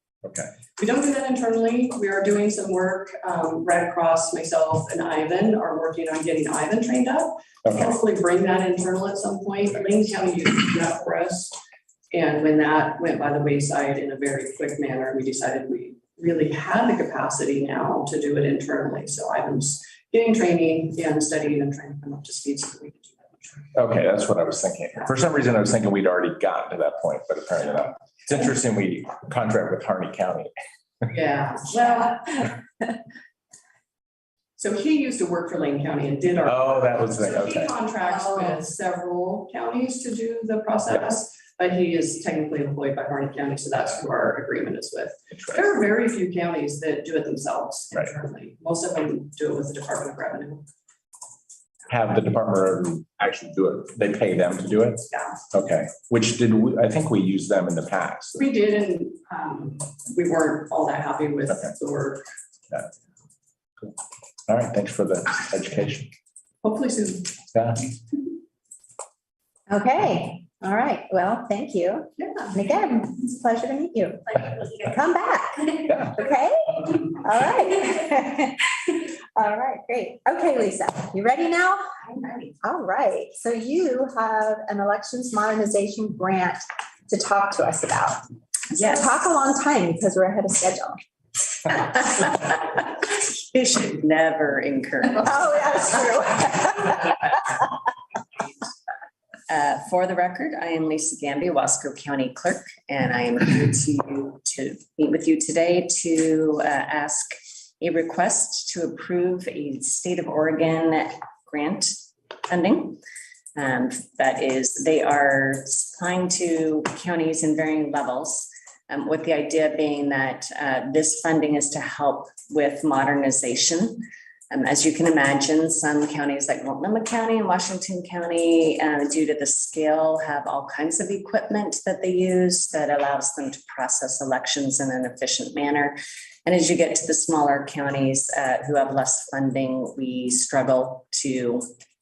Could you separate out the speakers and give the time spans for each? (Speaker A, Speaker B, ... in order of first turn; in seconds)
Speaker A: 0.2-0.5, 7.7-8.0, 23.8-30.5, 36.4-37.7, 51.9-58.4, 61.5-61.8, 64.5-66.1, 67.5-67.9, 75.9-76.2
Speaker B: 0.8-11.5, 12.1-23.7, 31.1-32.5, 34.6-50.6, 55.1-55.4, 58.4-62.2, 66.6-67.3, 72.2-72.5
Speaker C: 69.7-78.7, 79.4-81.9, 82.6-91.0, 95.1-97.2
Speaker D: 82.2-82.5, 88.8-89.0, 91.7-95.6, 99.5-112.0, 112.5-113.0, 113.6-141.7